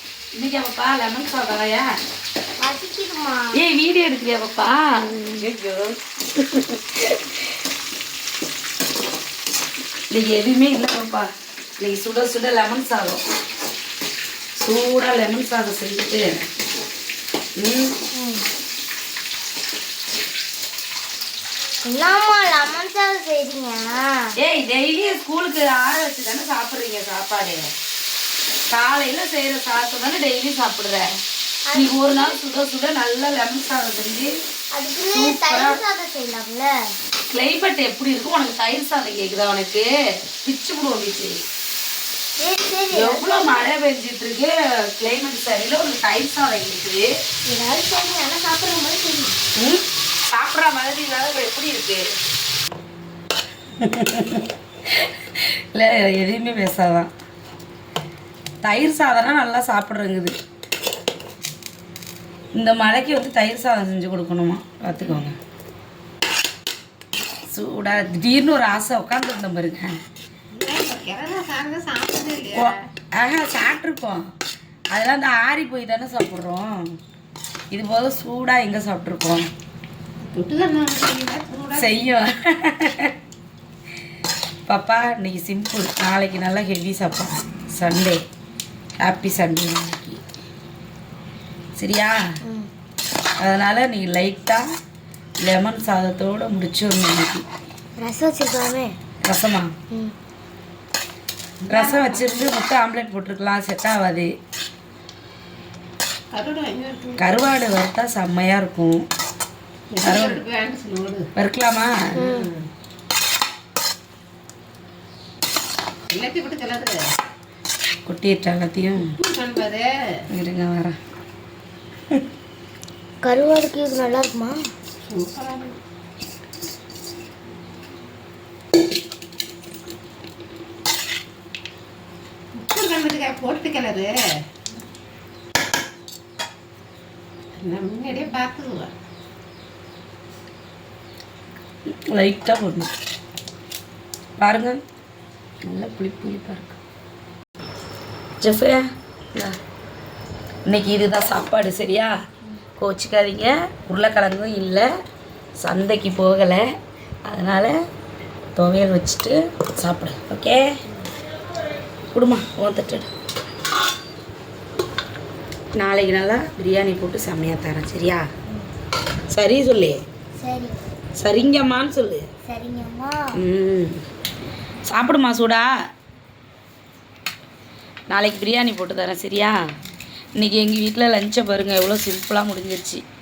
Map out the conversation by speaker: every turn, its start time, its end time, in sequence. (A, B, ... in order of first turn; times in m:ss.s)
0:00.3-0:01.9 A
0:02.6-0:03.6 B
0:03.5-0:07.4 A
0:10.1-0:13.2 A
0:14.6-0:16.4 A
0:17.6-0:17.9 A
0:18.2-0:18.4 B
0:21.8-0:24.3 B
0:24.4-0:27.7 A
0:28.7-0:31.1 A
0:31.7-0:32.4 B
0:31.7-0:34.3 A
0:34.7-0:36.7 B
0:35.1-0:35.8 A
0:37.3-0:39.9 A
0:40.4-0:41.3 A
0:42.4-0:43.3 B
0:42.9-0:47.0 A
0:47.5-0:49.2 B
0:49.6-0:52.0 A
0:53.8-0:57.1 A
0:58.6-1:00.3 A
1:02.5-1:05.4 A
1:07.5-1:09.9 A
1:10.5-1:12.8 C
1:12.5-1:14.3 A
1:14.9-1:17.0 A
1:17.7-1:19.5 A
1:20.2-1:22.0 C
1:21.8-1:23.1 A
1:24.7-1:28.2 A
1:29.0-1:30.2 A
1:31.8-1:32.2 A
1:33.4-1:34.6 A
1:35.4-1:37.4 A
1:38.0-1:38.9 B
1:39.2-1:39.7 A
1:41.6-1:42.3 C
1:41.7-1:44.3 A
1:46.3-1:47.2 C
1:47.2-1:49.0 A
1:49.9-1:51.3 C
1:50.0-1:50.4 A
1:51.4-1:52.3 A
1:52.2-1:52.5 B
1:52.2-1:52.7 C
1:56.1-1:57.0 C
1:58.0-1:59.1 A
1:59.0-1:59.8 C
2:00.3-2:01.0 A
2:03.2-2:04.6 B
2:05.1-2:05.8 C
2:12.5-2:14.1 C
2:17.6-2:18.9 C
2:22.1-2:22.9 A
2:24.4-2:24.8 A
2:25.7-2:26.8 A
2:28.4-2:28.8 A
2:30.6-2:32.1 A
2:32.8-2:34.8 A
2:35.6-2:36.6 A
2:37.2-2:37.8 A
2:38.6-2:40.8 A
2:42.1-2:43.1 A
2:45.8-2:48.2 A
2:49.3-2:50.0 A
2:50.4-2:50.8 B
2:51.2-2:52.3 A
2:52.4-2:53.4 B
2:53.3-2:54.0 A
2:54.9-2:55.7 A
2:58.1-2:59.6 A
3:00.4-3:03.0 A